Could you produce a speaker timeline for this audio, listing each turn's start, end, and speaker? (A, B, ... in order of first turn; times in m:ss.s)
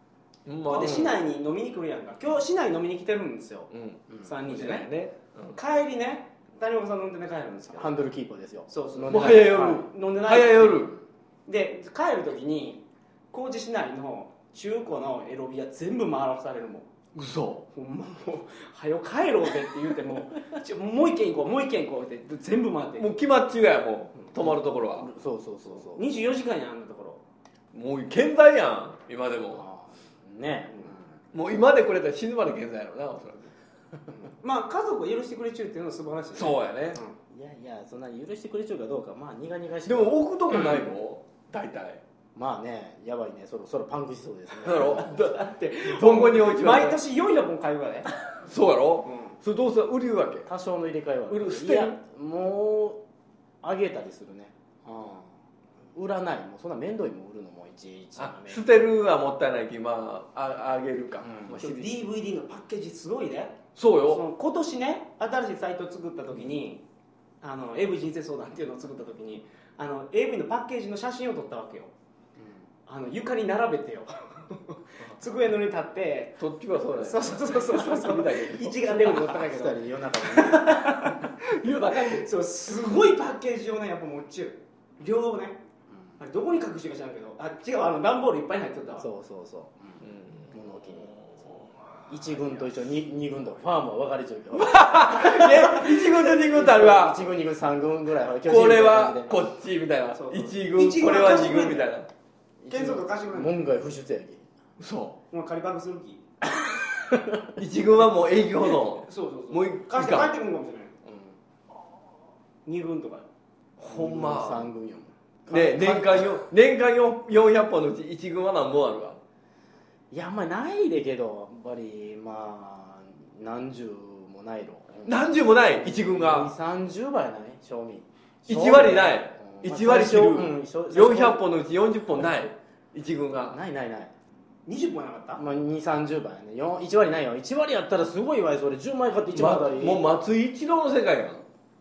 0:00.5-0:01.2 A
0:00.6-0:03.7 B
0:03.7-0:05.6 A
0:04.2-0:04.9 B
0:05.6-0:08.0 B
0:07.8-0:09.9 C
0:08.7-0:10.7 B
0:09.1-0:11.0 A
0:11.5-0:16.9 B
0:17.2-0:17.7 A
0:17.8-0:23.1 B
0:23.0-0:25.1 A
0:24.5-0:26.0 C
0:25.7-0:27.2 B
0:27.7-0:29.6 A
0:29.5-0:31.0 C
0:31.3-0:33.5 A
0:34.2-0:37.2 B
0:36.4-0:37.0 A
0:37.3-0:40.2 C
0:39.9-0:42.0 A
0:42.4-0:45.2 C
0:44.6-0:47.0 A
0:44.9-0:48.1 B
0:48.4-0:50.5 A
0:49.0-0:49.4 B
0:50.5-0:53.0 C
0:51.3-0:52.0 A
0:53.6-0:55.3 C
0:55.9-0:58.6 C
0:58.2-1:02.0 A
1:01.2-1:01.6 C
1:01.6-1:06.8 B
1:03.8-1:04.2 A
1:07.4-1:11.9 B
1:12.9-1:16.4 B
1:16.4-1:19.5 A
1:16.9-1:21.3 B
1:19.4-1:20.8 C
1:21.0-1:22.3 A
1:21.9-1:25.6 B
1:26.2-1:29.1 B
1:29.0-1:31.1 C
1:30.0-1:31.7 A
1:32.1-1:35.9 C
1:34.5-1:37.3 A
1:36.4-1:39.4 C
1:38.4-1:42.1 A
1:40.1-1:41.9 B
1:42.6-1:44.4 C
1:42.7-1:43.6 B
1:44.8-1:45.2 A
1:45.3-1:46.2 B
1:46.6-1:47.5 C
1:47.6-1:50.4 A
1:49.1-1:51.0 B
1:51.1-1:51.4 C
1:52.7-1:53.3 B
1:53.8-1:54.7 A
1:53.8-1:56.4 C
1:55.5-1:59.2 A
2:00.1-2:11.4 C
2:05.1-2:06.5 A
2:08.5-2:13.6 A
2:13.5-2:14.1 C
2:14.7-2:15.4 B
2:15.4-2:20.0 C
2:19.4-2:21.4 A